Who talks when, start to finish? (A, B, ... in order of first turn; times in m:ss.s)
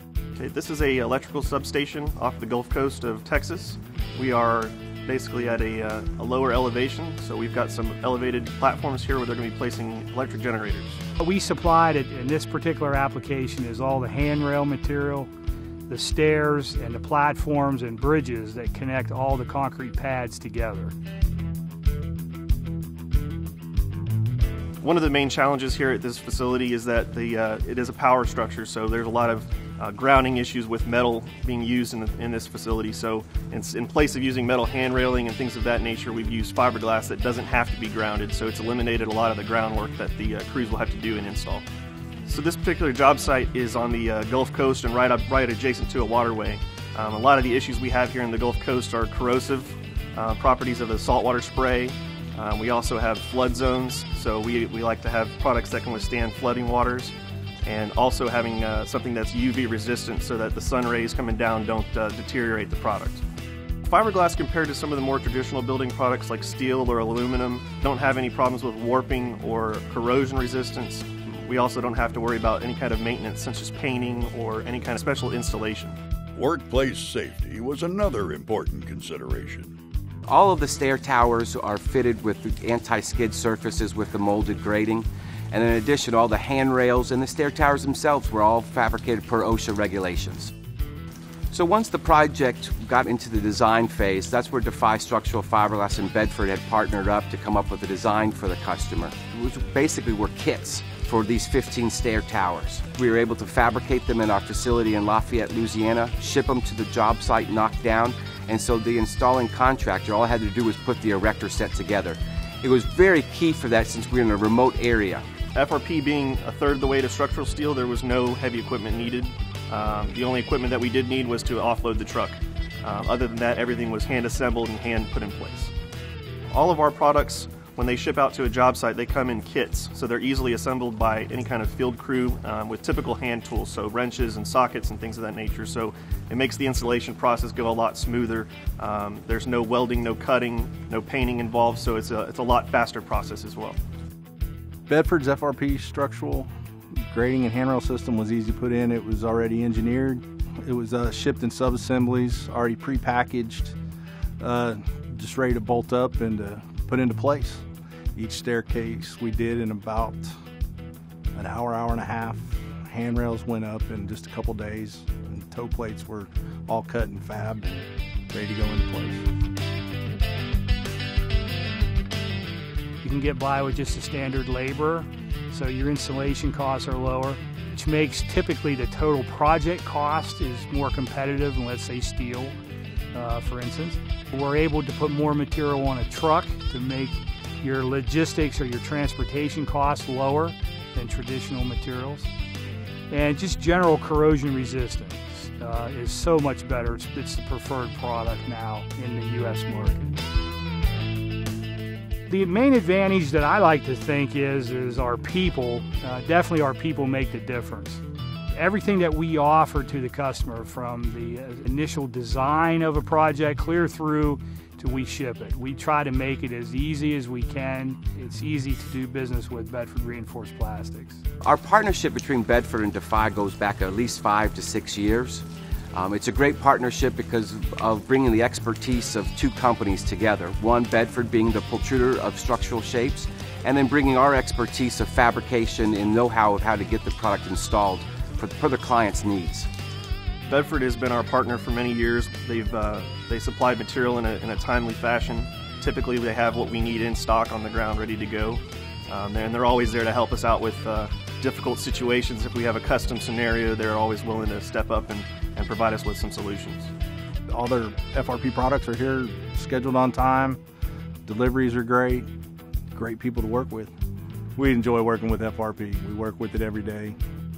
0:00.4-0:11.0 A
0:11.2-0:15.3 B
0:15.9-0:21.0 B
0:24.8-0:41.7 A
0:42.2-1:03.2 A
1:03.8-1:16.0 A
1:16.4-1:19.8 C
1:20.3-1:30.5 D
1:31.5-1:55.2 D
1:55.6-2:05.7 A
2:06.5-2:23.8 A
2:24.9-2:26.5 E
2:27.1-2:33.8 E
2:34.4-2:37.6 E
2:38.2-2:40.3 E
2:41.4-2:49.3 E
2:53.0-3:02.6 B
3:03.1-3:12.3 B
3:13.1-3:20.2 B
3:22.3-3:28.0 B
3:28.5-3:41.2 B
3:41.4-3:59.7 D
4:00.5-4:16.9 A
4:17.5-4:20.6 E
4:21.3-4:22.3 E
4:22.9-4:23.9 E
4:24.6-4:27.2 E